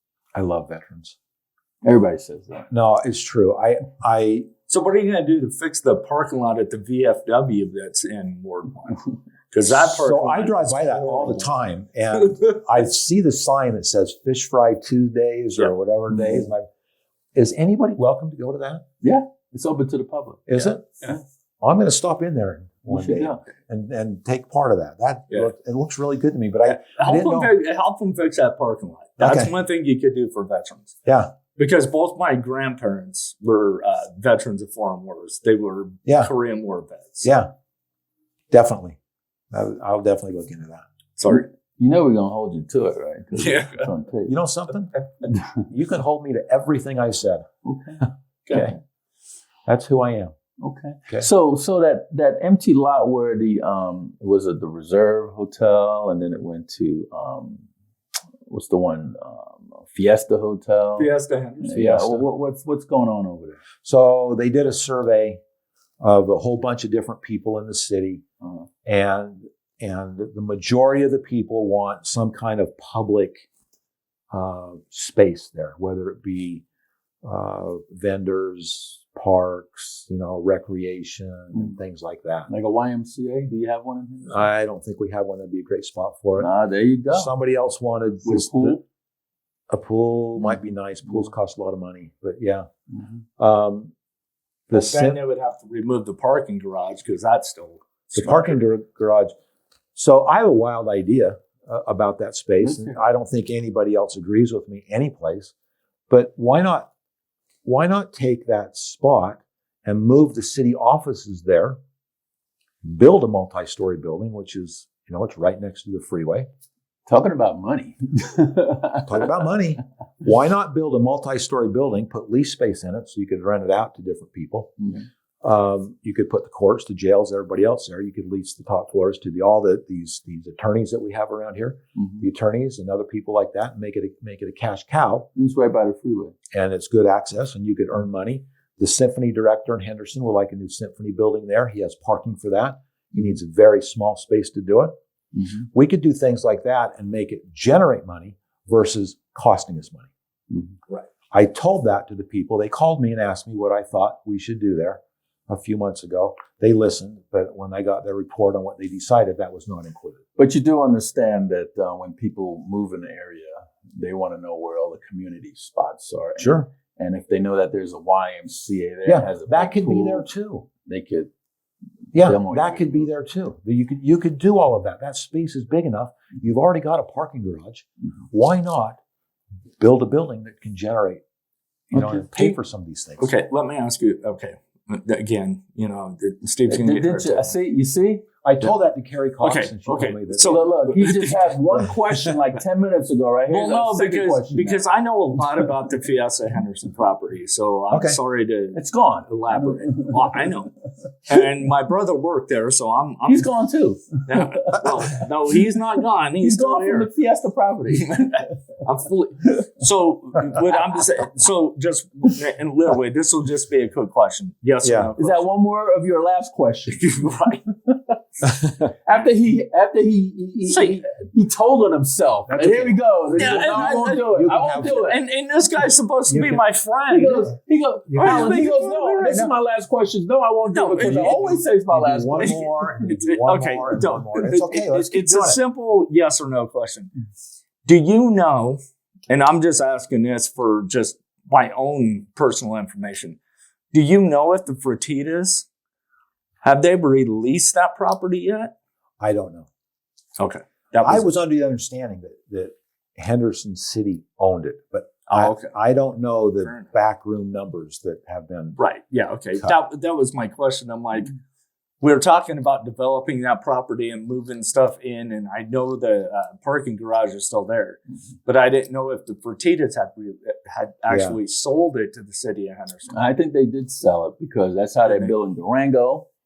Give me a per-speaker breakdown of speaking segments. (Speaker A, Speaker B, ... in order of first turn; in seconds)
Speaker A: 0.3-1.1, 2.7-4.5, 9.7-16.6, 17.3-18.8, 20.5-27.5, 29.2-29.5, 31.0-31.3, 36.1-36.3, 37.2-37.5, 38.5-39.0, 39.5-40.9, 44.3-44.9, 45.7-47.5, 48.5-48.8, 49.7-50.3, 61.7-62.2, 63.8-65.4, 66.0-68.2, 68.8-73.4, 74.3-76.6, 77.2-82.5, 84.3-86.5, 87.1-88.8, 89.7-92.7, 93.4-93.9, 94.7-95.2, 98.2-99.3, 99.9-105.5, 106.1-106.9, 107.6-111.8, 112.8-116.5, 119.0-124.8, 125.4-135.3, 136.5-144.9, 145.7-150.1, 151.3-160.2, 166.4-166.7, 169.0-170.7, 172.1-179.0, 179.8-181.2, 181.9-183.3, 188.4-190.6, 197.9-198.2, 214.8-215.1, 222.5-225.1, 226.3-226.6, 227.3-227.5, 228.1-228.6, 229.2-229.5, 231.0-235.6, 249.2-249.7, 251.0-258.8, 271.1-271.4
Speaker B: 1.8-2.7, 16.1-16.5, 19.0-20.4, 22.9-23.4, 41.2-44.4, 47.6-48.0, 50.6-57.6, 58.5-63.6, 82.5-84.5, 86.4-87.3, 88.2-88.8, 90.4-91.3, 92.9-93.2, 102.6-103.0, 117.1-119.4, 131.9-132.2, 135.3-136.3, 145.3-145.7, 150.5-150.7, 160.4-170.3, 170.8-171.3, 172.1-173.1, 181.9-182.3, 186.7-188.2, 190.4-194.8, 198.7-200.4, 203.2-205.1, 206.4-208.5, 210.6-210.9, 215.2-217.1, 218.4-225.2, 227.1-233.1, 273.1-276.3
Speaker C: 4.7-11.5, 12.2-12.6, 20.5-21.1, 26.6-31.0, 31.6-37.3, 41.2-41.5, 43.3-43.9, 61.0-61.7, 94.7-98.6, 183.2-187.5, 189.4-191.6, 193.5-200.7, 201.3-203.5, 204.2-207.1, 207.9-215.4, 216.9-217.6, 220.7-221.0, 223.3-227.4, 228.2-229.4, 230.7-231.6, 232.4-237.1, 237.8-243.4, 243.9-245.7, 246.6-248.7, 250.4-251.3, 255.3-255.8, 256.6-256.9, 258.8-261.3, 262.0-273.2, 275.0-275.4